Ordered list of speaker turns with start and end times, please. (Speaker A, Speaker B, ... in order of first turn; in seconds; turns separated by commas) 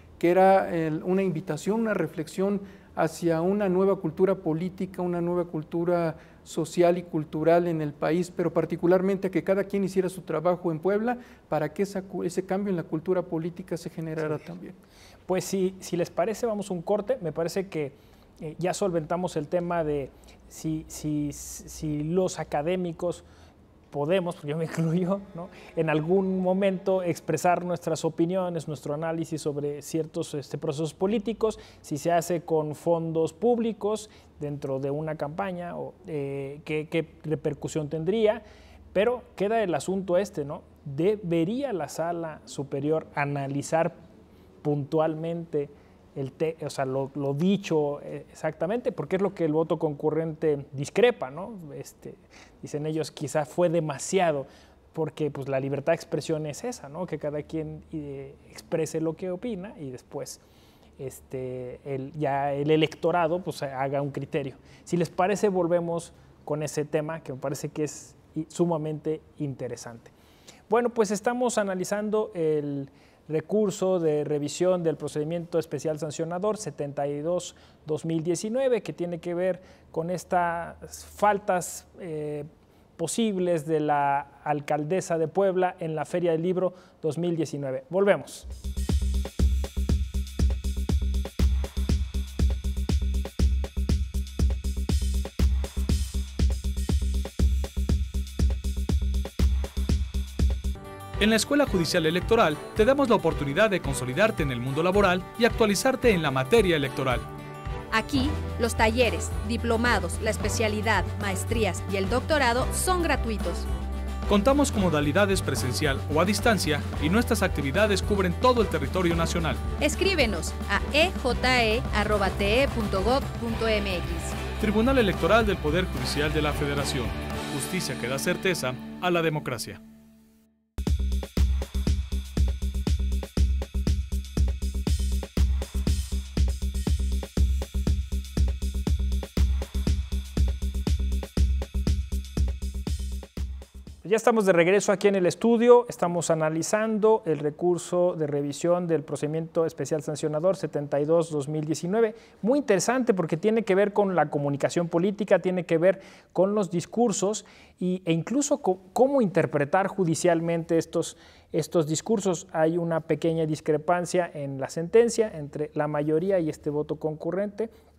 Speaker A: 0.2-14.8, Speaker B: 15.3-23.2, Speaker B: 23.9-38.4, Speaker B: 38.9-44.0, Speaker B: 44.6-60.4, Speaker B: 61.0-70.1, Speaker B: 70.7-88.5, Speaker C: 101.2-107.3, Speaker D: 107.9-113.7, Speaker C: 114.3-119.7, Speaker D: 119.8-124.4, Speaker C: 124.6-129.8, Speaker B: 144.0-167.7